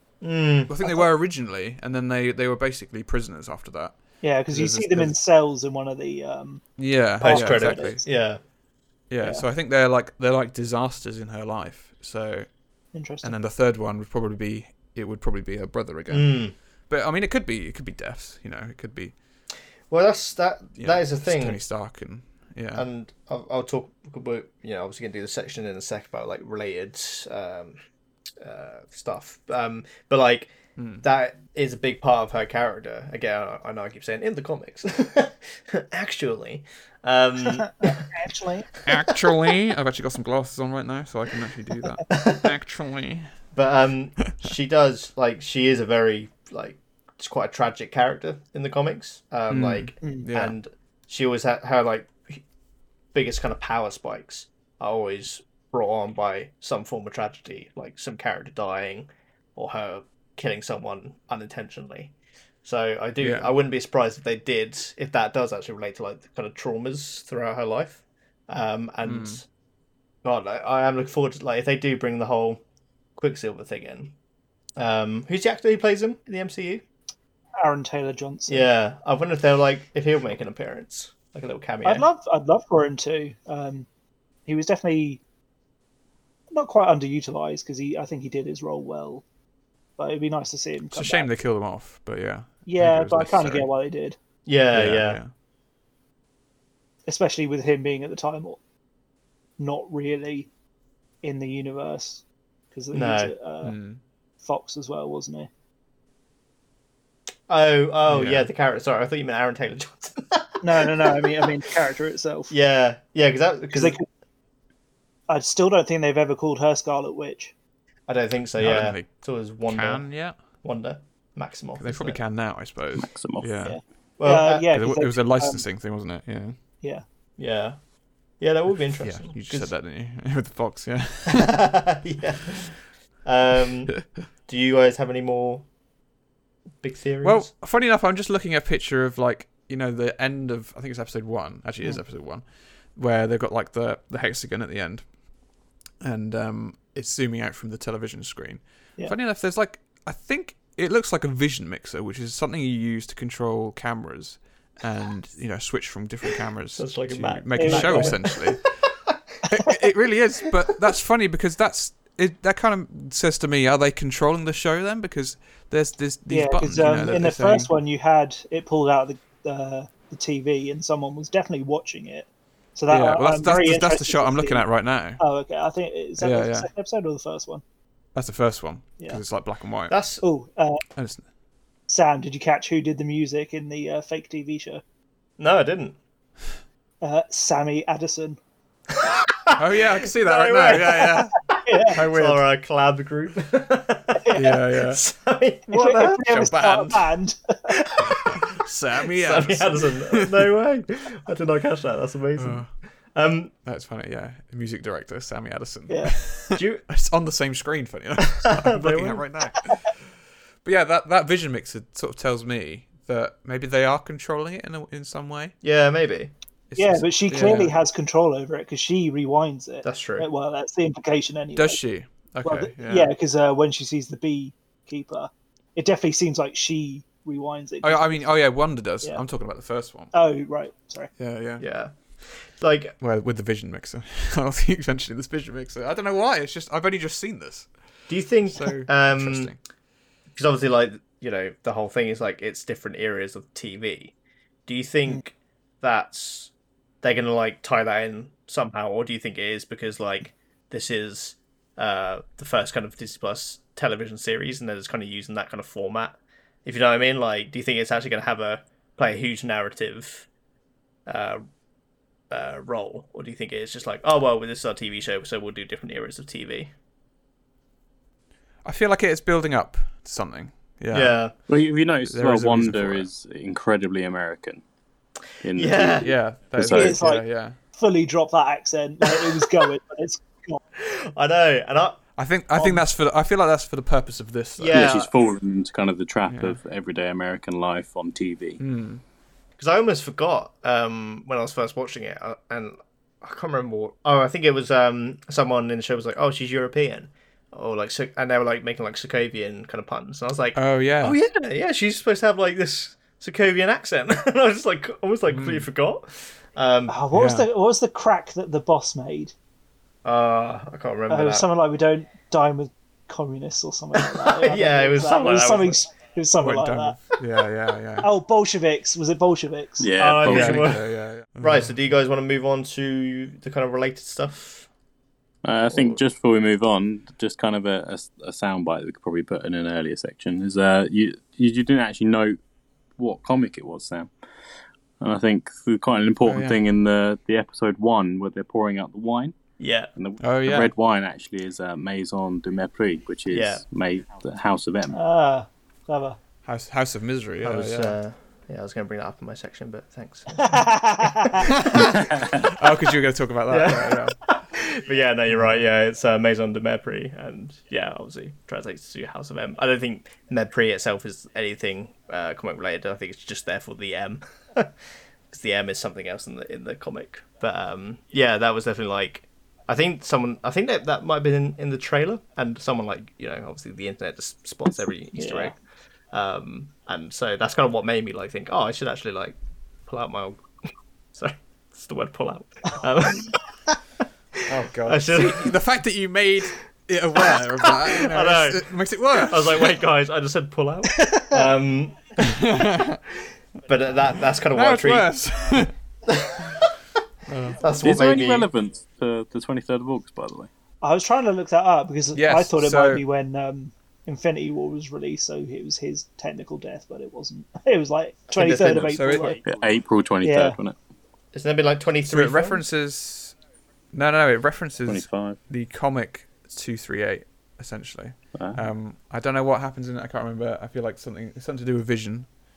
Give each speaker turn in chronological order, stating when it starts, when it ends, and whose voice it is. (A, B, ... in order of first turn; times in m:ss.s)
0:00.2-0:00.8 A
0:00.7-0:05.1 B
0:04.2-0:06.6 C
0:06.8-0:08.0 B
0:07.2-0:08.1 C
0:07.2-0:08.4 A
0:09.1-0:12.5 B
0:12.9-0:13.4 C
0:13.2-0:19.1 B
0:16.1-0:16.5 A
0:19.9-0:21.6 A
0:20.8-0:22.8 B
0:22.7-0:27.8 A
0:28.4-0:38.1 A
0:30.8-0:31.0 B
0:37.6-0:38.7 C
0:38.9-0:43.3 B
0:38.9-0:39.2 A
0:42.1-0:42.6 A
0:43.5-0:52.4 A
0:49.5-0:50.5 B
0:53.1-1:09.4 A
1:03.2-1:03.5 B
1:09.0-1:09.4 B
1:10.2-1:12.6 A
1:13.2-1:14.1 A
1:14.8-1:16.8 A
1:17.6-1:18.7 C
1:18.5-1:22.1 A
1:21.8-1:23.9 C
1:24.4-1:25.2 C
1:26.5-1:29.2 C
1:30.0-1:31.3 C
1:30.9-1:33.7 B
1:32.6-1:34.2 C
1:34.4-1:35.2 A
1:34.7-1:35.3 B
1:37.1-1:38.6 C
1:39.6-1:40.5 C
1:41.2-1:43.8 C
1:42.9-1:43.3 A
1:43.6-1:44.0 B
1:44.4-1:45.5 C
1:47.5-1:51.4 A
1:48.1-1:48.5 B
1:50.6-1:52.5 C
1:52.5-1:54.0 A
1:53.7-1:54.0 C
1:55.3-1:57.5 C
1:58.1-2:02.2 A
1:58.6-1:59.1 B
1:59.7-2:00.4 B
2:01.8-2:03.8 B
2:03.0-2:03.5 D
2:03.6-2:05.6 C
2:04.2-2:04.7 A
2:04.7-2:06.6 B
2:07.4-2:07.8 A
2:08.4-2:09.7 A
2:09.0-2:11.6 B
2:11.3-2:12.7 A
2:13.2-2:15.7 A
2:16.8-2:17.5 A
2:17.2-2:25.0 B
2:26.0-2:38.7 B
2:36.8-2:38.6 A
2:37.5-2:38.2 C
2:39.5-2:47.7 B
2:46.3-2:54.7 C
2:52.9-2:55.2 B
2:55.2-2:57.6 C
2:56.2-2:56.7 B
2:58.1-3:00.0 B
2:59.9-3:00.2 A
3:00.2-3:00.8 C
3:01.0-3:01.2 B
3:01.9-3:04.8 C
3:05.4-3:06.0 A
3:07.0-3:08.4 C
3:09.0-3:16.0 A
3:09.5-3:11.3 B
3:11.6-3:12.0 C
3:11.9-3:12.4 B
3:14.2-3:14.6 C
3:14.3-3:15.0 B
3:15.7-3:17.7 C
3:15.7-3:17.1 B
3:18.0-3:18.3 A
3:18.3-3:20.3 B
3:19.0-3:23.5 A
3:22.4-3:22.8 B
3:23.6-3:30.1 B
3:25.9-3:26.2 C
3:26.5-3:26.9 A
3:28.5-3:29.2 A
3:30.6-3:35.5 B
3:35.6-3:36.3 A
3:36.7-3:37.8 B
3:36.8-3:41.8 C
3:39.8-3:40.3 A
3:41.6-3:43.1 B
3:42.4-3:48.3 C
3:47.8-3:50.1 B
3:50.1-3:51.1 C
3:51.2-3:51.6 B
3:51.6-3:53.0 A
3:53.0-3:57.7 B
3:58.1-3:59.5 A
3:58.5-3:59.6 B
4:00.3-4:04.1 A
4:04.7-4:20.3 A
4:21.0-4:21.4 A
4:22.3-4:26.7 A
4:28.6-4:31.2 B
4:30.9-4:31.3 A
4:31.5-4:34.6 D
4:32.0-4:33.1 B
4:35.4-4:37.0 D
4:35.5-4:36.1 A
4:36.0-4:37.6 B
4:36.6-4:40.6 C
4:40.8-4:42.0 A
4:42.2-4:44.9 B
4:42.6-4:42.8 C
4:44.6-4:45.1 A
4:44.7-4:48.6 D
4:46.3-4:46.6 B
4:48.6-4:49.0 B
4:49.6-5:07.0 A
5:00.5-5:01.2 B
5:05.3-5:05.7 B
5:06.9-5:09.3 C
5:07.1-5:07.4 B
5:10.0-5:11.4 A
5:11.1-5:17.0 C
5:14.0-5:15.8 A
5:16.4-5:18.1 B
5:18.0-5:20.2 C
5:19.8-5:20.7 D
5:20.0-5:24.7 A
5:20.2-5:21.7 B
5:25.4-5:32.4 D
5:25.7-5:26.0 A
5:33.0-5:34.1 D
5:35.0-5:39.3 D
5:36.2-5:36.6 B
5:39.6-5:39.9 A
5:40.0-5:45.0 D
5:40.2-5:40.7 B
5:43.3-5:43.6 A
5:44.9-5:46.2 C
5:46.4-5:48.0 B
5:47.4-5:51.9 A
5:50.4-5:51.4 C
5:51.6-5:54.2 B
5:53.5-6:04.7 A
5:55.3-5:55.6 B
6:05.3-6:15.6 A
6:15.2-6:15.5 C
6:16.1-6:20.4 A
6:21.1-6:23.7 A
6:24.5-6:29.8 B
6:24.8-6:25.5 A
6:27.3-6:32.4 A
6:31.1-6:31.4 C
6:32.2-6:33.0 B
6:33.6-6:35.1 A
6:34.5-6:35.7 B
6:36.0-6:36.7 A
6:37.2-6:37.6 B
6:37.5-6:38.5 A
6:37.8-6:40.5 D
6:40.8-6:49.4 C
6:42.1-6:43.0 B
6:48.3-6:49.4 A
6:48.7-6:49.6 B
6:49.4-6:50.8 D
6:50.2-6:50.6 C
6:51.3-6:52.6 A
6:52.1-6:53.4 B
6:53.9-7:02.3 B
6:54.9-6:55.4 D